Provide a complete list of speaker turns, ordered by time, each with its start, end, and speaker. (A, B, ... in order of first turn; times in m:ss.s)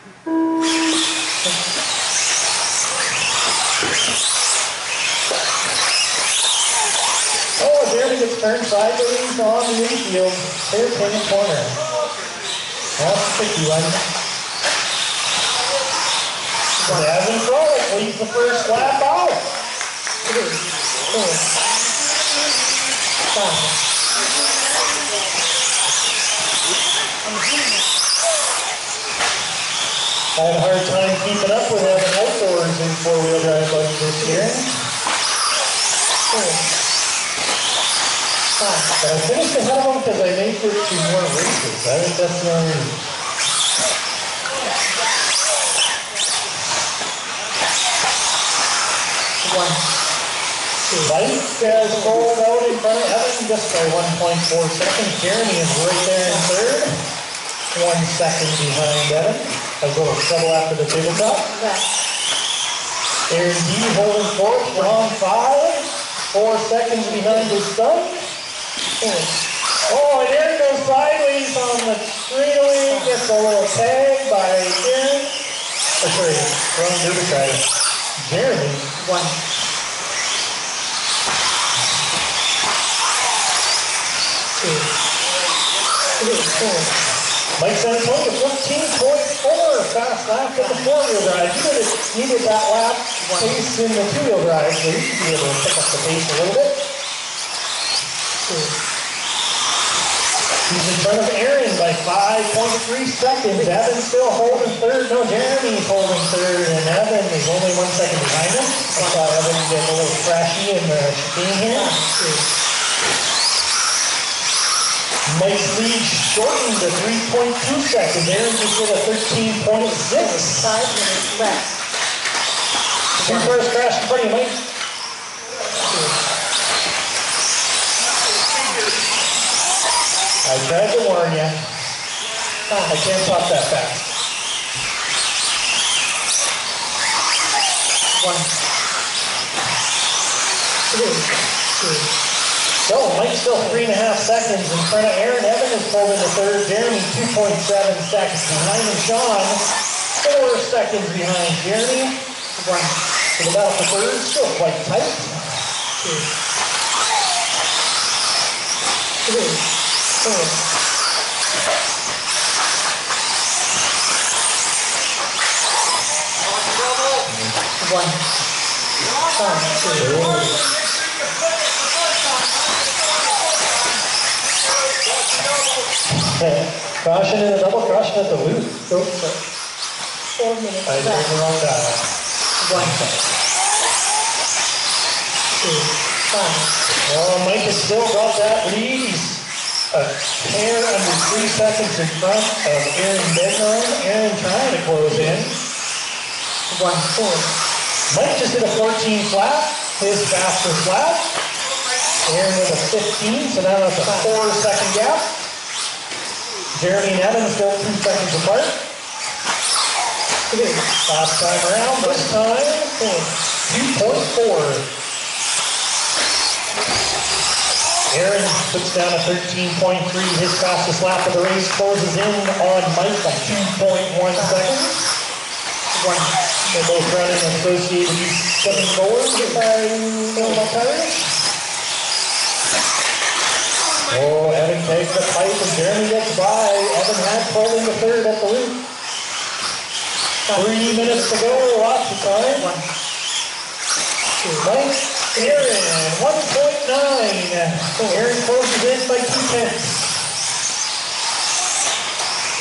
0:07.6-0:11.8 A
0:13.0-0:14.0 A
0:16.8-0:17.1 B
0:16.9-0:19.5 A
0:20.3-0:21.5 B
0:23.3-0:23.8 B
0:30.4-0:34.7 A
0:34.2-0:34.5 B
0:36.3-0:36.7 B
0:38.6-0:38.9 B
0:39.0-0:43.0 A
0:49.4-0:49.9 B
0:50.9-0:52.3 B
0:51.0-0:56.9 A
0:56.2-0:56.5 B
0:57.7-1:01.4 A
1:01.1-1:01.9 B
1:03.3-1:08.2 A
1:04.7-1:05.1 B
1:07.0-1:07.6 B
1:09.0-1:09.4 B
1:09.9-1:15.3 A
1:12.9-1:13.2 B
1:16.0-1:17.6 A
1:18.2-1:18.9 A
1:19.0-1:19.4 B
1:24.6-1:24.9 B
1:26.2-1:27.0 B
1:27.6-1:36.8 A
1:30.6-1:30.9 B
1:33.2-1:33.6 B
1:38.5-1:38.8 B
1:40.7-1:51.9 A
1:43.5-1:44.8 B
1:48.9-1:49.3 B
1:51.7-1:52.5 B
1:55.3-2:00.7 A
1:59.8-2:01.8 B
2:03.2-2:03.6 B
2:03.2-2:04.6 A
2:05.9-2:06.2 B
2:10.4-2:11.6 A
2:12.7-2:13.0 B
2:12.9-2:14.1 A
2:18.1-2:18.5 B
2:20.9-2:22.1 B
2:22.9-2:29.6 A
2:23.6-2:23.9 B
2:30.2-2:32.2 A
2:32.6-2:33.0 B
2:33.4-2:35.4 A
2:36.0-2:36.3 B
2:39.2-2:39.6 B
2:40.2-2:40.6 B
2:47.8-2:48.2 B
2:49.3-2:50.1 B
2:50.0-2:50.6 A
2:56.2-2:58.8 A
2:58.9-2:59.4 B
3:00.4-3:01.3 B
3:00.8-3:02.1 A
3:02.6-3:03.0 B
3:02.7-3:03.4 A
3:05.6-3:06.7 B
3:07.1-3:15.6 A
3:15.1-3:15.4 B
3:16.7-3:17.5 B
3:18.1-3:21.2 A
3:22.2-3:25.4 A
3:24.0-3:24.4 B
3:26.7-3:28.8 A
3:30.5-3:30.9 B
3:31.1-3:33.0 A
3:32.0-3:32.4 B
3:33.0-3:33.3 B
3:33.6-3:34.9 A
3:38.1-3:45.1 A
3:44.4-3:44.9 B
3:45.9-3:46.4 B
3:46.7-3:51.3 A
3:48.7-3:49.6 B
3:50.4-3:50.7 B
3:54.1-3:58.8 A
4:00.4-4:01.7 B
4:00.6-4:02.7 A
4:02.5-4:02.9 B
4:04.4-4:04.7 B
4:04.6-4:10.1 A
4:05.3-4:05.7 B
4:08.0-4:08.3 B